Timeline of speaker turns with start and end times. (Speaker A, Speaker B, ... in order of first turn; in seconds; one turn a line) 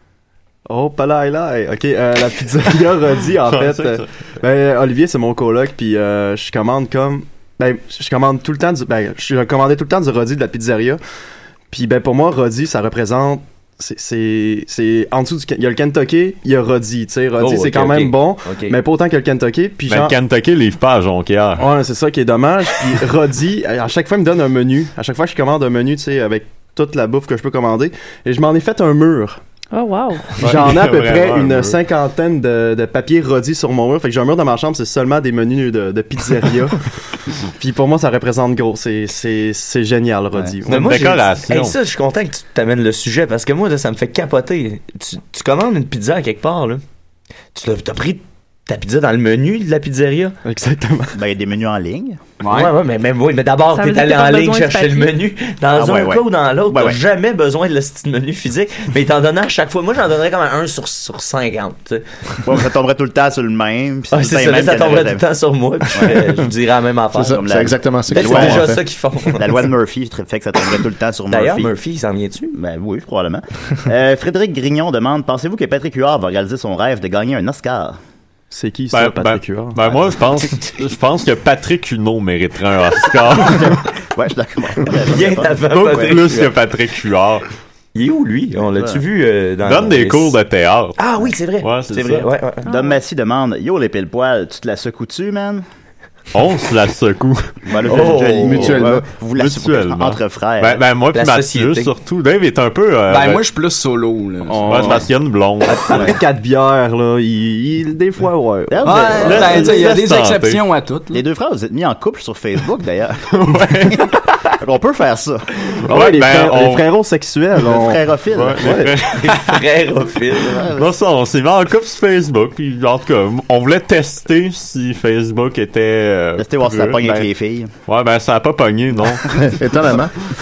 Speaker A: 0.7-11.0
Speaker B: 3.5-4.1
Speaker A: 11.7-20.2
Speaker C: 17.4-18.8
Speaker B: 19.9-21.7
Speaker A: 21.6-29.4
Speaker D: 29.7-30.4
Speaker A: 30.4-36.8
Speaker B: 30.4-31.8
Speaker A: 37.6-41.0
Speaker C: 40.7-46.8
Speaker B: 40.7-41.8
Speaker C: 47.5-50.4
Speaker A: 50.5-51.1
Speaker E: 51.1-52.2
Speaker F: 52.4-52.7
Speaker C: 52.5-62.0
Speaker D: 53.7-55.1
Speaker E: 55.7-57.0
Speaker E: 62.4-65.2
Speaker C: 64.1-67.4
Speaker E: 65.9-66.3
Speaker G: 67.2-68.8
Speaker E: 67.2-68.7
Speaker C: 68.1-69.5
Speaker E: 69.3-71.7
Speaker C: 71.3-72.5
Speaker E: 72.5-78.0
Speaker A: 78.5-79.8
Speaker B: 78.9-83.8
Speaker E: 83.3-86.5
Speaker C: 85.1-86.4
Speaker B: 85.7-87.5
Speaker C: 88.0-90.4
Speaker E: 88.6-89.0
Speaker B: 89.7-91.0
Speaker C: 91.0-92.7
Speaker B: 91.6-92.3
Speaker E: 92.7-95.6
Speaker D: 92.7-93.0
Speaker B: 96.3-97.6
Speaker E: 97.7-100.8
Speaker C: 97.9-98.8
Speaker G: 98.3-99.0
Speaker B: 99.4-103.5
Speaker C: 101.1-101.9
Speaker F: 103.1-105.0
Speaker A: 104.5-105.1
Speaker B: 104.7-106.1
Speaker A: 105.6-109.1
Speaker E: 108.7-109.8
Speaker F: 108.8-111.2
Speaker B: 109.2-110.6
Speaker E: 111.1-114.0
Speaker B: 113.5-114.1
Speaker E: 114.6-115.5
Speaker A: 115.9-118.0
Speaker B: 115.9-116.9
Speaker E: 117.7-118.8
Speaker B: 118.3-119.4
Speaker A: 118.5-119.0
Speaker C: 119.2-120.7
Speaker E: 120.4-120.9
Speaker B: 120.8-127.3
Speaker E: 126.4-127.7
Speaker B: 127.9-129.4
Speaker G: 129.4-130.1